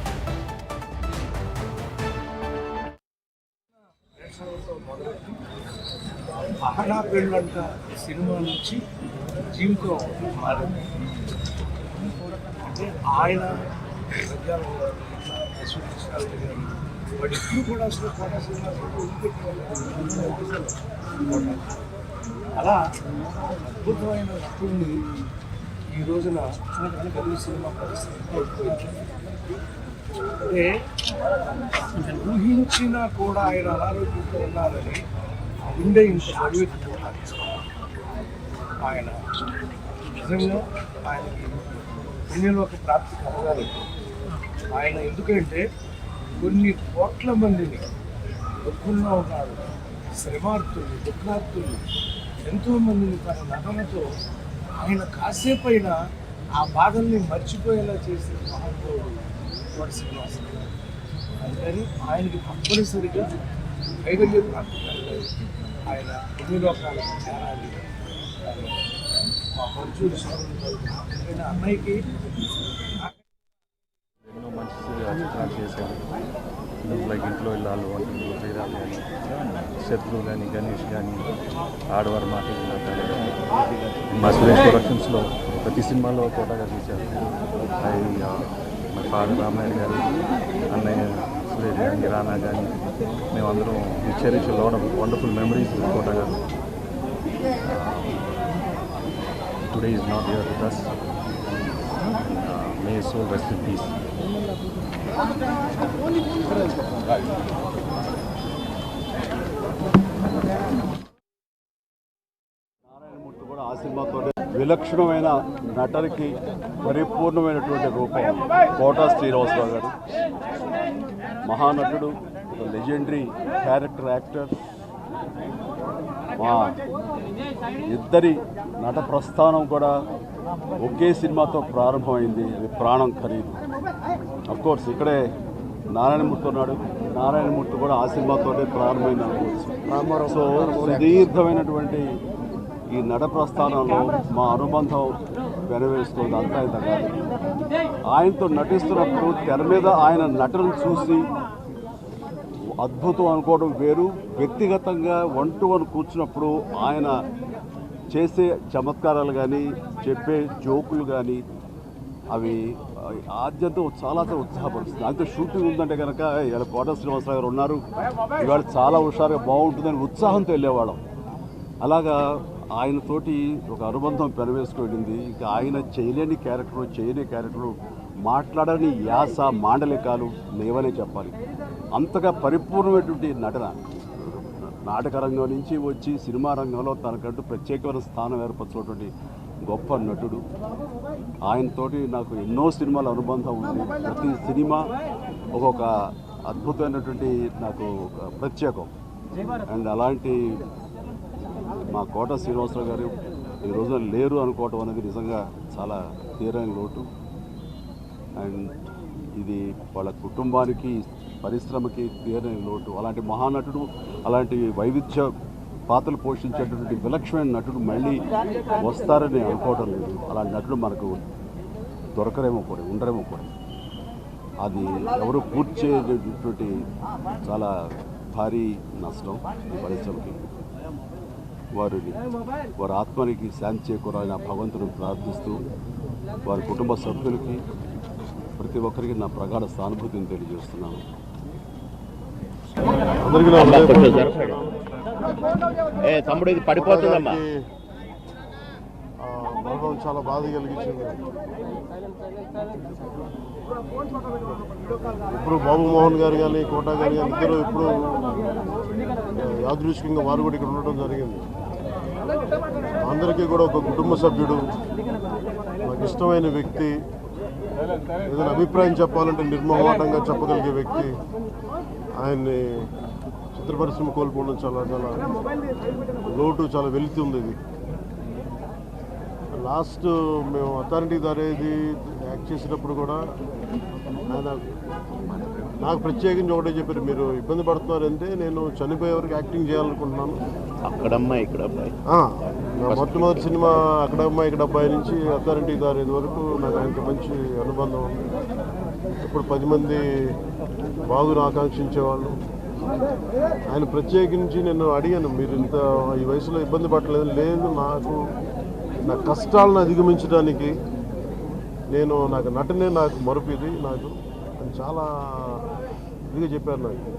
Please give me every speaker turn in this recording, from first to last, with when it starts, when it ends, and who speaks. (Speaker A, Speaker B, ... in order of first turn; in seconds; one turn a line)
Speaker A: 4.2-5.4
Speaker A: 6.6-8.8
Speaker A: 9.5-10.8
Speaker A: 12.7-13.7
Speaker A: 14.2-21.7
Speaker A: 22.6-22.8
Speaker A: 23.8-25.1
Speaker A: 25.9-29.0
Speaker A: 30.5-30.8
Speaker A: 32.0-35.0
Speaker A: 35.7-37.7
Speaker A: 38.8-39.2
Speaker A: 40.2-41.6
Speaker A: 42.3-43.8
Speaker A: 44.7-45.7
Speaker A: 46.4-47.9
Speaker A: 48.6-49.6
Speaker A: 50.2-51.8
Speaker A: 52.5-54.1
Speaker A: 54.8-56.0
Speaker A: 56.6-59.2
Speaker A: 59.7-60.5
Speaker A: 61.4-63.3
Speaker A: 64.1-65.3
Speaker A: 65.9-67.8
Speaker A: 68.5-68.7
Speaker A: 69.6-72.1
Speaker B: 74.3-76.0
Speaker B: 76.8-81.3
Speaker B: 81.9-83.5
Speaker B: 84.1-90.1
Speaker B: 90.7-92.8
Speaker B: 93.3-96.4
Speaker B: 97.7-98.2
Speaker B: 99.7-101.0
Speaker B: 102.2-103.9
Speaker C: 112.9-120.0
Speaker C: 121.5-124.5
Speaker C: 126.4-126.8
Speaker C: 127.9-129.9
Speaker C: 130.8-133.6
Speaker C: 134.5-135.2
Speaker C: 135.9-142.1
Speaker D: 139.9-141.3
Speaker C: 142.9-147.2
Speaker C: 148.1-151.3
Speaker C: 152.8-157.1
Speaker C: 158.1-161.4
Speaker C: 162.3-167.8
Speaker C: 168.4-171.0
Speaker C: 171.8-172.2
Speaker C: 172.8-177.7
Speaker C: 178.3-181.4
Speaker C: 182.0-189.1
Speaker C: 189.7-190.4
Speaker C: 191.5-194.9
Speaker C: 195.6-195.9
Speaker C: 196.5-198.9
Speaker C: 199.7-200.6
Speaker C: 201.9-203.1
Speaker C: 203.7-207.1
Speaker C: 208.4-208.8
Speaker C: 209.4-215.3
Speaker C: 215.9-218.2
Speaker C: 218.8-221.2
Speaker C: 222.2-223.5
Speaker C: 224.6-226.7
Speaker C: 228.3-230.4
Speaker C: 231.8-232.2
Speaker C: 232.8-235.6
Speaker C: 236.5-237.6
Speaker C: 238.6-241.0
Speaker D: 243.2-244.3
Speaker E: 243.6-244.6
Speaker E: 246.1-247.4
Speaker D: 246.8-247.5
Speaker D: 249.2-251.2
Speaker D: 255.3-258.2
Speaker D: 259.5-261.5
Speaker D: 263.1-264.7
Speaker D: 265.9-266.9
Speaker D: 268.3-271.1
Speaker D: 272.2-272.9
Speaker D: 273.6-275.2
Speaker D: 276.2-277.6
Speaker D: 279.6-283.2
Speaker D: 284.3-284.6
Speaker D: 285.8-290.4
Speaker E: 290.9-291.9
Speaker D: 292.1-298.3
Speaker E: 292.9-293.5
Speaker D: 299.2-300.0
Speaker D: 301.1-302.3
Speaker D: 303.7-308.2
Speaker D: 309.1-310.7
Speaker D: 311.9-315.6
Speaker D: 316.3-317.0